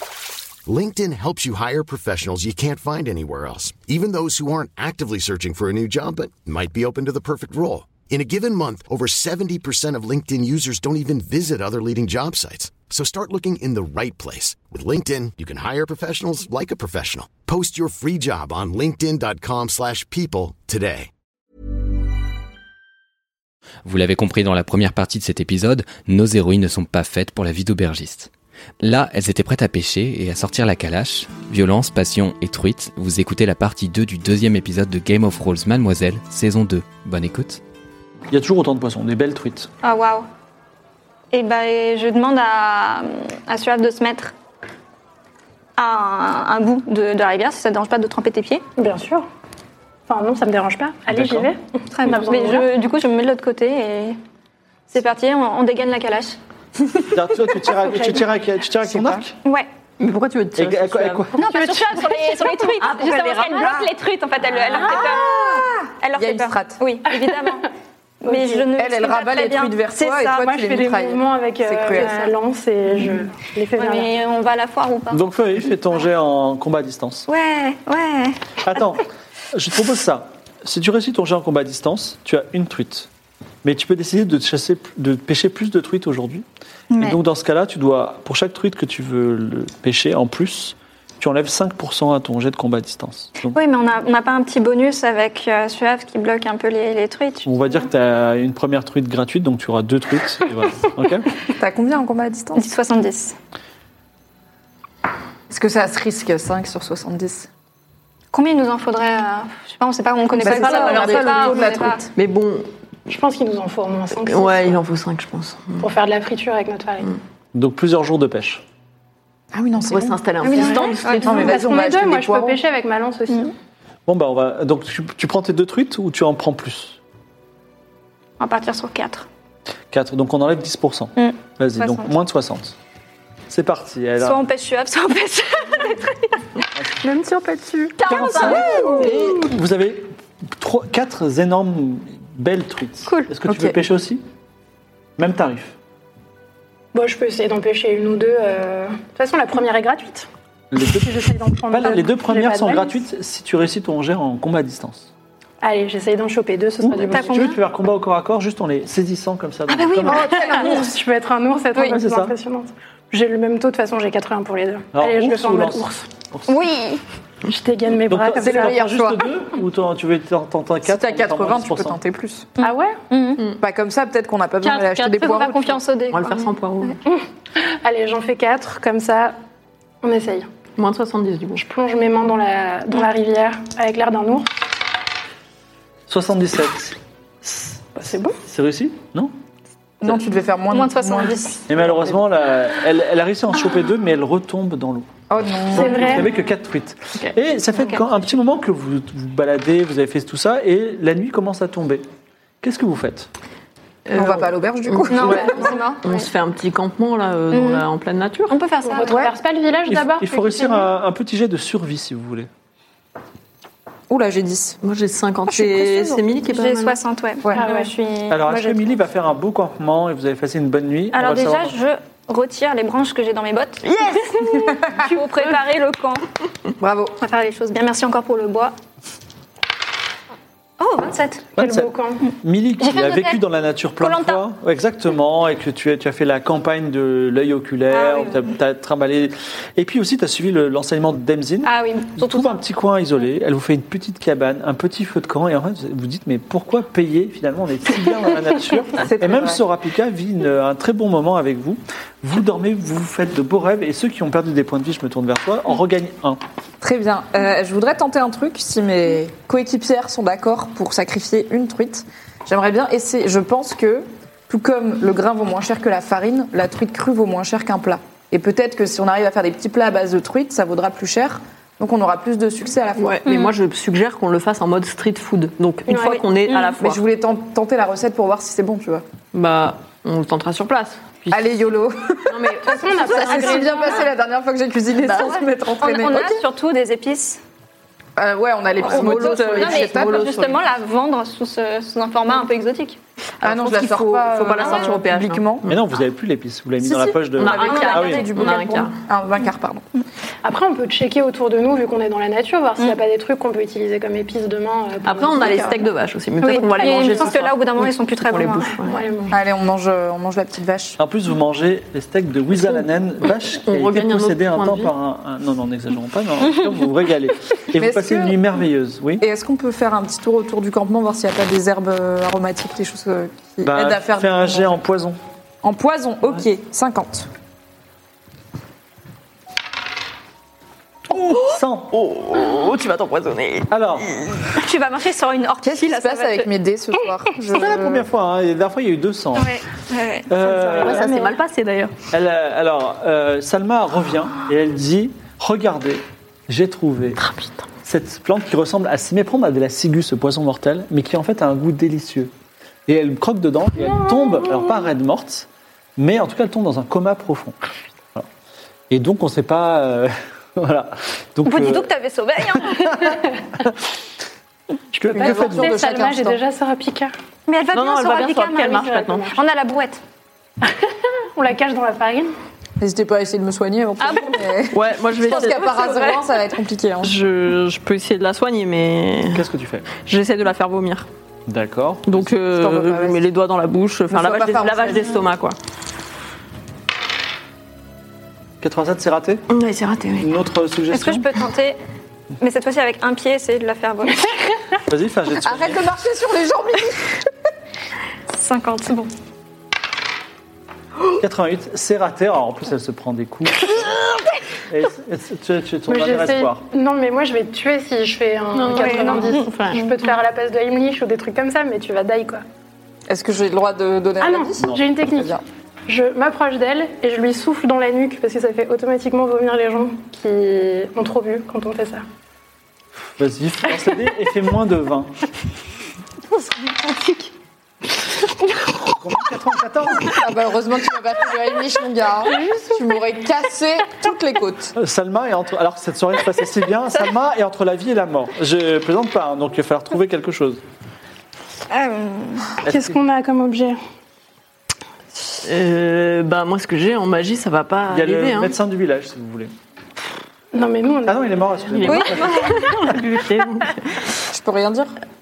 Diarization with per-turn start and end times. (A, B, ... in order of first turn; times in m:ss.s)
0:00.6-0:21.1 A
0:23.8-0:37.6 B
0:38.3-0:39.7 C
0:39.8-0:40.2 D
0:41.3-0:44.3 D
0:45.8-0:48.6 D
0:48.8-0:49.2 E
0:50.1-0:52.7 E
0:51.1-0:51.5 C
0:51.9-0:54.2 D
0:54.9-0:56.4 D
0:57.1-0:59.3 C
0:58.8-0:59.3 F
1:00.0-1:01.3 G
1:00.6-1:01.3 C
1:01.4-1:07.7 D
1:01.4-1:02.5 E
1:02.8-1:03.9 G
1:04.8-1:06.8 F
1:08.2-1:10.5 D
1:08.2-1:08.7 E
1:08.7-1:12.3 F
1:10.4-1:14.1 E
1:13.8-1:15.2 D
1:15.1-1:17.3 C
1:17.3-1:18.6 D
1:18.6-1:23.1 C
1:23.6-1:26.4 C
1:26.9-1:27.2 D
1:27.0-1:33.6 C
1:33.5-1:37.9 D
1:37.4-1:41.3 C
1:41.6-1:42.7 F
1:42.5-1:43.4 D
1:45.5-1:47.5 F
1:48.3-1:52.0 D
1:50.4-1:52.1 F
1:50.4-1:52.7 G
1:53.1-1:54.8 E
1:54.2-1:55.8 G
1:55.8-1:57.2 E
1:57.5-1:58.6 C
1:59.5-2:00.2 F
1:59.9-2:01.6 G
2:00.4-2:01.4 D
2:00.5-2:03.5 E
2:01.2-2:02.6 F
2:04.1-2:07.0 C
2:08.4-2:09.2 D
2:09.9-2:12.7 C
2:11.2-2:12.1 D
2:13.5-2:14.4 C
2:14.2-2:16.4 D
2:17.2-2:19.2 G
2:18.0-2:24.2 C
2:18.3-2:19.1 F
2:23.5-2:23.8 F
2:25.2-2:25.7 C
2:26.9-2:30.3 E
2:30.7-2:35.1 C
2:30.8-2:33.0 E
2:35.6-2:37.5 E
2:36.8-2:40.4 C
2:37.1-2:37.6 D
2:39.7-2:40.8 D
2:40.0-2:40.9 F
2:40.4-2:46.1 E
2:41.8-2:42.3 C
2:44.9-2:46.6 C
2:46.5-2:47.0 D
2:47.4-2:48.8 E
2:48.1-2:52.0 C
2:48.4-2:49.3 F
2:50.8-2:52.5 F
2:52.6-2:53.4 D
2:52.6-2:53.0 E
2:53.6-2:55.8 F
2:54.6-2:55.5 G
2:55.1-2:56.9 D
2:56.1-2:57.0 G
2:57.0-2:59.4 E
3:00.0-3:00.5 E
3:00.8-3:01.6 G
3:01.6-3:04.5 E
3:06.1-3:09.3 C
3:08.0-3:08.4 E
3:10.0-3:11.4 F
3:10.7-3:11.7 D
3:11.7-3:15.1 C
3:15.3-3:16.3 F
3:15.6-3:22.0 C
3:15.7-3:16.3 E
3:17.8-3:18.0 D
3:22.6-3:23.3 C
3:24.1-3:28.6 G
3:24.1-3:25.8 F
3:25.1-3:26.3 D
3:27.5-3:27.8 D
3:28.5-3:29.3 D
3:28.8-3:30.9 E
3:29.0-3:29.3 F
3:29.9-3:32.5 C
3:34.1-3:34.8 F
3:34.8-3:37.0 G
3:35.5-3:36.3 F
3:36.5-3:38.5 D
3:37.5-3:37.9 E
3:38.3-3:41.8 C
3:38.5-3:38.8 E
3:41.1-3:43.8 D
3:43.8-3:44.4 G
3:44.4-3:45.0 F
3:44.9-3:46.2 D
3:46.8-3:47.2 F
3:47.2-3:48.7 D
3:50.8-3:51.5 D
3:51.6-4:16.4 C
3:51.6-3:52.2 E
3:52.8-3:53.4 D
3:54.0-3:54.4 D
3:57.9-3:58.4 D
4:01.6-4:02.6 D
4:09.0-4:09.6 F
4:16.8-4:33.2 F
4:33.0-4:37.0 G
4:33.2-4:33.5 D
4:35.9-4:36.2 E
4:36.5-4:36.7 D
4:36.8-4:39.0 F
4:39.3-4:41.4 G
4:41.3-4:46.4 F
4:42.3-4:43.7 G
4:42.6-4:44.1 E
4:43.2-4:43.9 D
4:45.1-4:47.4 D
4:48.2-4:50.3 F
4:48.8-4:50.6 G
4:49.0-4:53.0 D
4:53.4-4:55.4 G
4:53.4-4:55.7 F
4:55.6-4:58.2 C
4:56.8-4:59.8 F
4:57.4-4:59.0 G
4:57.5-4:58.7 D
5:00.4-5:05.9 E
5:05.0-5:09.0 G
5:06.4-5:08.8 D
5:06.8-5:07.4 E
5:08.8-5:09.3 E
5:09.3-5:11.0 F
5:11.0-5:19.2 C
5:13.6-5:14.9 G
5:17.7-5:18.4 F
5:19.2-5:24.7 F
5:23.6-5:25.2 C
5:25.6-5:27.3 F
5:31.2-5:31.9 C
5:31.9-5:34.4 G
5:33.7-5:34.2 C
5:34.6-5:36.5 D
5:35.6-5:38.0 F
5:37.5-5:39.6 C
5:39.4-5:40.3 D
5:40.3-5:41.1 C
5:40.4-5:41.4 E
5:40.8-5:41.9 G
5:42.1-5:47.2 C
5:47.2-5:47.6 G
5:47.8-5:52.3 C
5:52.9-5:57.6 C
5:53.8-5:54.7 E
5:58.9-6:01.9 C
6:01.4-6:03.2 D
6:02.6-6:03.2 C
6:04.9-6:05.8 C
6:05.1-6:07.1 E
6:05.1-6:06.4 F
6:07.5-6:10.0 D
6:07.7-6:09.4 G
6:08.7-6:09.4 E
6:10.6-6:12.3 E
6:12.8-6:17.1 F
6:14.0-6:14.4 D
6:14.7-6:16.2 G
6:17.0-6:19.4 G
6:19.3-6:19.9 C
6:20.0-6:21.1 G
6:21.4-6:22.3 C
6:22.0-6:25.6 G
6:22.5-6:23.2 F
6:24.1-6:25.2 F
6:28.6-6:29.4 C
6:29.5-6:30.3 G
6:30.2-6:31.3 C
6:30.9-6:31.8 D
6:32.4-6:34.4 D
6:34.9-6:35.8 C
6:35.4-6:37.2 F
6:38.3-6:39.1 D
6:41.2-6:43.9 C
6:44.7-6:46.6 C
6:45.9-6:52.4 E
6:48.5-6:49.9 G
6:48.7-6:49.4 D
6:53.1-6:55.4 F
6:54.2-7:02.0 E
7:03.2-7:05.2 C
7:08.9-7:10.3 C
7:10.0-7:14.7 F
7:12.3-7:12.8 E
7:14.7-7:20.6 C
7:21.7-7:22.5 D
7:22.6-7:23.0 C
7:22.6-7:23.8 E
7:25.4-7:28.5 G
7:27.9-7:29.5 C
7:30.5-7:31.9 E
7:31.0-7:32.5 C
7:31.7-7:33.8 G
7:31.8-7:32.7 D
7:34.3-7:34.9 F